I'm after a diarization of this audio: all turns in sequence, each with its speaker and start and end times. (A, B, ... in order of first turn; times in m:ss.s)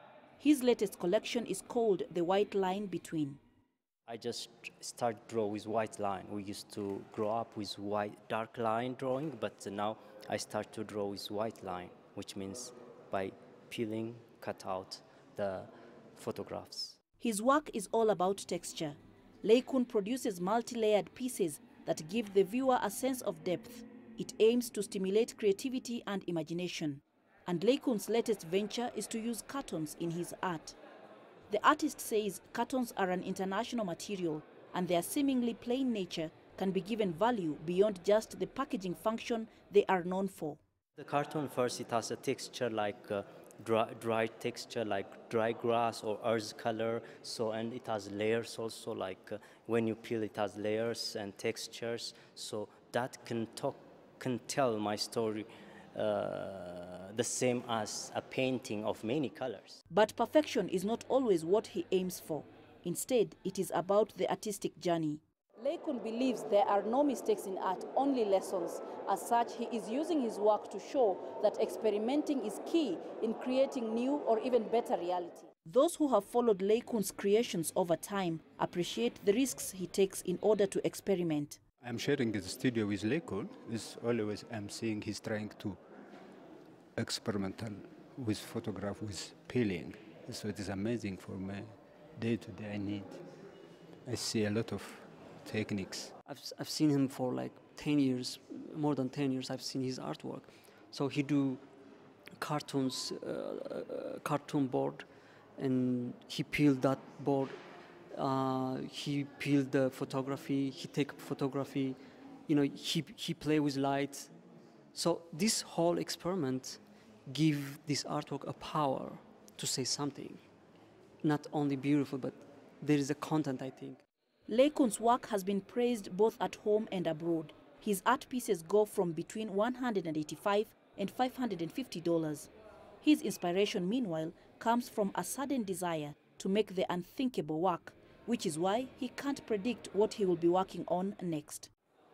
0:00.4-0:03.4 A
0:04.1-0:17.0 B
0:17.2-0:30.8 A
0:31.5-0:40.6 A
0:41.0-0:59.8 B
0:59.9-1:21.6 A
1:21.8-1:25.8 C
1:27.0-1:33.2 C
1:34.0-1:36.1 C
1:36.2-1:41.6 D
1:42.4-1:47.6 D
1:48.1-1:54.3 D
1:54.9-2:00.4 D
2:01.2-2:04.0 D
2:04.5-2:12.5 A
2:13.0-2:21.7 A